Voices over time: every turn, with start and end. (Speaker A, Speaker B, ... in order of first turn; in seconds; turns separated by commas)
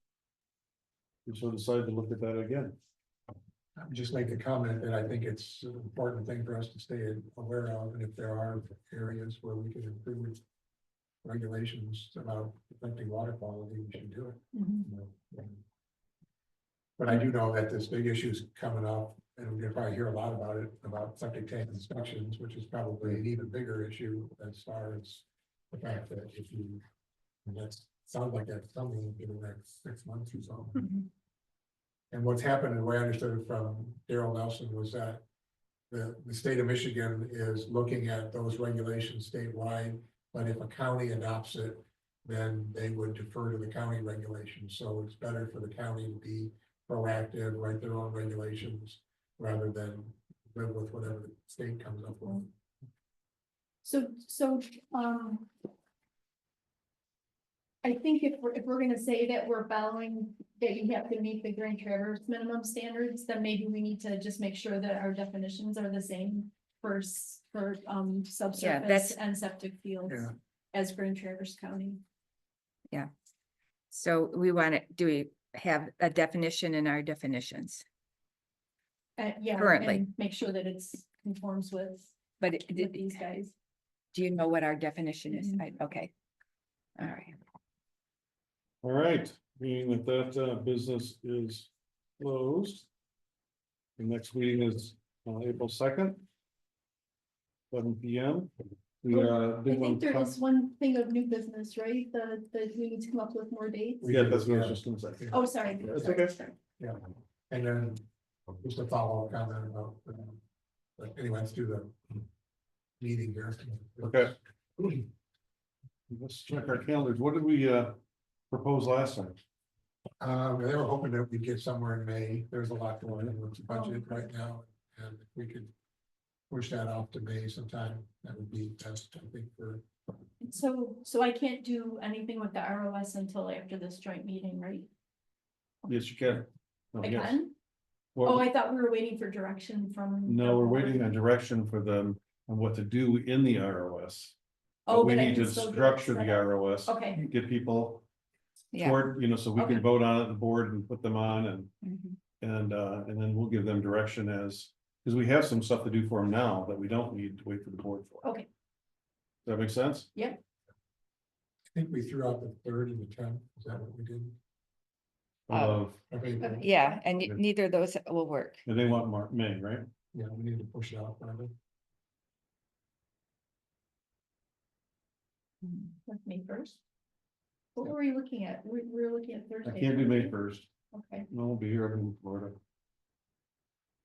Speaker A: 1.2-2.8, Speaker B: 3.8-10.4, Speaker B: 11.2-15.6, Speaker C: 14.5-14.9, Speaker B: 17.0-26.8, Speaker B: 27.4-30.9, Speaker B: 32.1-35.2, Speaker B: 35.9-52.5, Speaker C: 53.8-55.5, Speaker C: 57.8-72.0, Speaker D: 68.6-69.2, Speaker D: 73.9-77.8, Speaker C: 79.2-82.2, Speaker D: 79.5-80.0, Speaker D: 82.4-83.2, Speaker C: 82.7-83.5, Speaker D: 84.1-86.1, Speaker C: 85.3-85.6, Speaker D: 87.0-87.3, Speaker A: 88.8-92.9, Speaker A: 94.0-96.2, Speaker A: 97.7-100.4, Speaker C: 99.1-104.0, Speaker B: 104.0-105.4, Speaker A: 104.0-106.3, Speaker C: 105.3-106.6, Speaker B: 106.8-110.4, Speaker B: 111.0-112.2, Speaker B: 113.0-115.0, Speaker A: 114.0-114.3, Speaker A: 116.1-118.0, Speaker A: 118.5-119.4, Speaker B: 120.2-125.7, Speaker C: 123.7-124.2, Speaker B: 126.5-129.8, Speaker C: 130.4-134.9, Speaker A: 135.9-137.4, Speaker C: 137.0-137.5, Speaker A: 138.1-138.5, Speaker C: 138.2-141.1, Speaker A: 140.2-144.3, Speaker C: 144.9-147.2, Speaker A: 144.9-148.0, Speaker D: 148.7-149.0, Speaker A: 148.8-151.7, Speaker C: 149.6-149.8, Speaker D: 151.8-152.2, Speaker A: 152.4-158.3, Speaker A: 159.4-160.1, Speaker C: 160.1-160.4, Speaker B: 161.7-164.4, Speaker A: 165.5-166.0, Speaker D: 165.5-165.8, Speaker B: 166.1-166.7, Speaker C: 166.4-166.9, Speaker D: 166.6-168.6, Speaker A: 168.7-169.9, Speaker B: 170.1-171.5, Speaker D: 175.6-175.9, Speaker C: 176.1-176.8, Speaker C: 177.8-180.3, Speaker A: 179.6-180.7, Speaker C: 180.9-181.3, Speaker A: 181.3-182.6